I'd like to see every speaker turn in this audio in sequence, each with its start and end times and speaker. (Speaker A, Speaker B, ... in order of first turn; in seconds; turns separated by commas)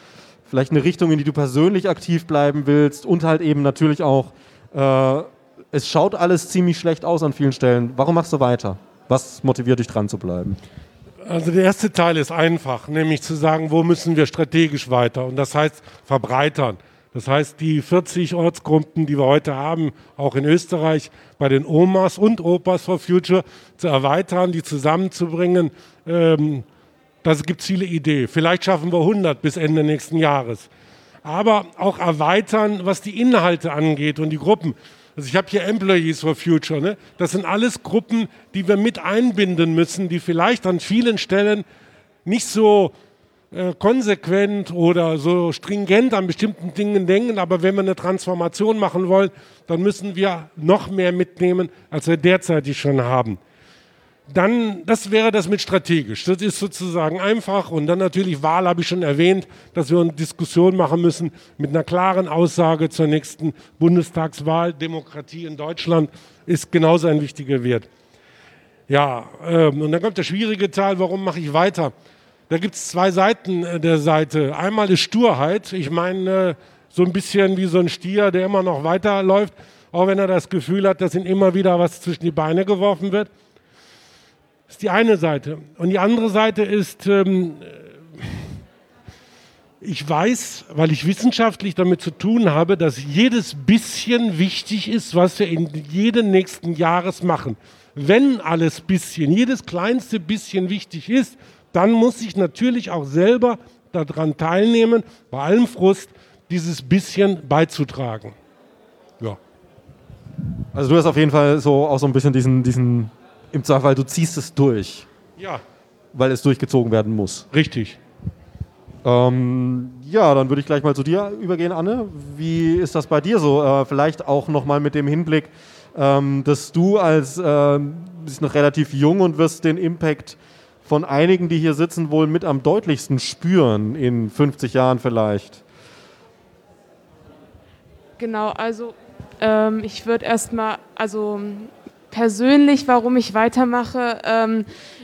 Speaker A: 0.5-10.6, Speaker B: 11.3-26.7, Speaker B: 27.2-30.7, Speaker B: 31.2-41.7, Speaker B: 42.2-42.9, Speaker B: 43.5-53.4, Speaker B: 54.3-67.9, Speaker B: 68.9-71.9, Speaker B: 72.5-83.3, Speaker B: 84.7-88.3, Speaker B: 89.8-108.3, Speaker A: 110.7-115.1, Speaker B: 115.4-115.6, Speaker A: 116.1-117.5, Speaker B: 117.5-118.0, Speaker A: 119.0-135.6, Speaker C: 138.2-144.7